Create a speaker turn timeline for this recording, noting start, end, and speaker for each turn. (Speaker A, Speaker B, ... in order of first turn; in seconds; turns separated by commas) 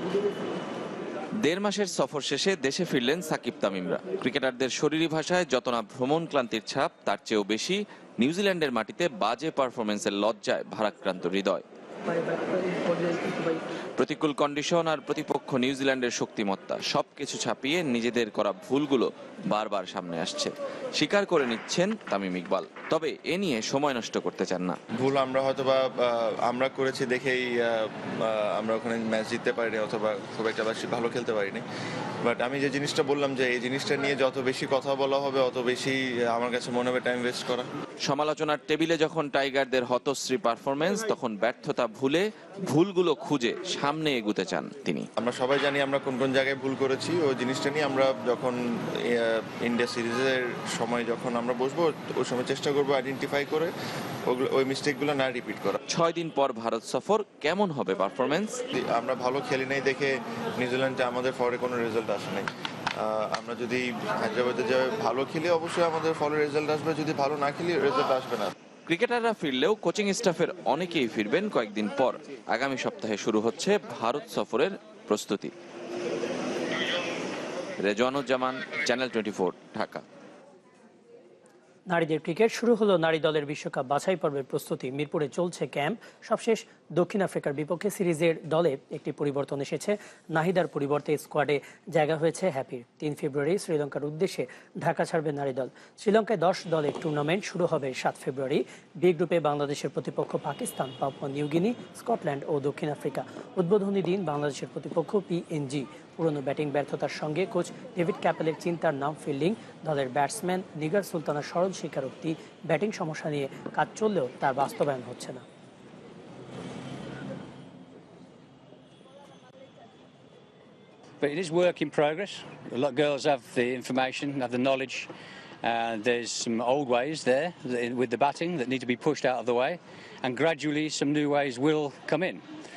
Speaker A: 1.4-11.6, Speaker A: 14.0-24.8, Speaker B: 25.0-31.6, Speaker B: 32.2-37.7, Speaker A: 38.0-45.1, Speaker B: 45.2-53.7, Speaker B: 54.3-55.8, Speaker A: 55.9-58.6, Speaker B: 58.7-68.5, Speaker A: 68.9-75.5, Speaker A: 77.8-80.0, Speaker C: 81.9-115.4, Speaker D: 121.2-125.1, Speaker D: 125.6-132.4